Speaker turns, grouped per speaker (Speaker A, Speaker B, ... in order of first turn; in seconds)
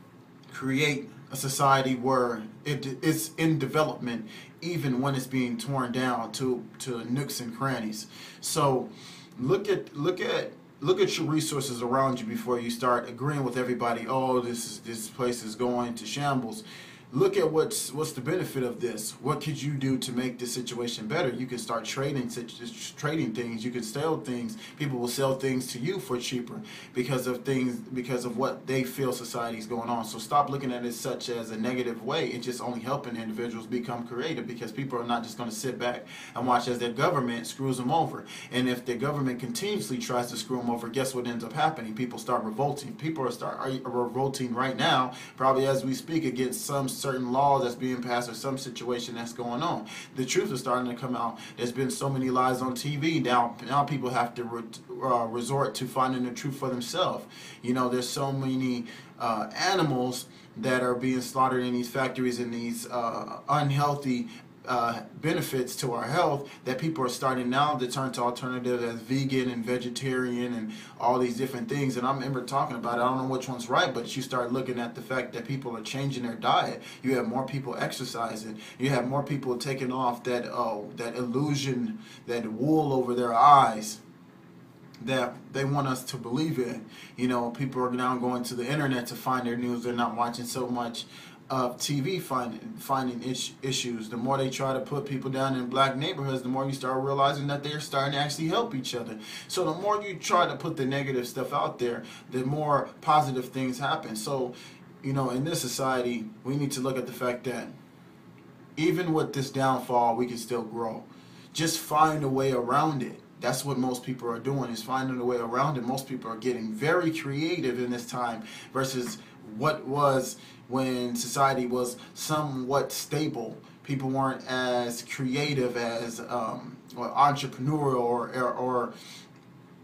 Speaker A: 0.5-84.0, 85.0-107.7, 108.8-128.9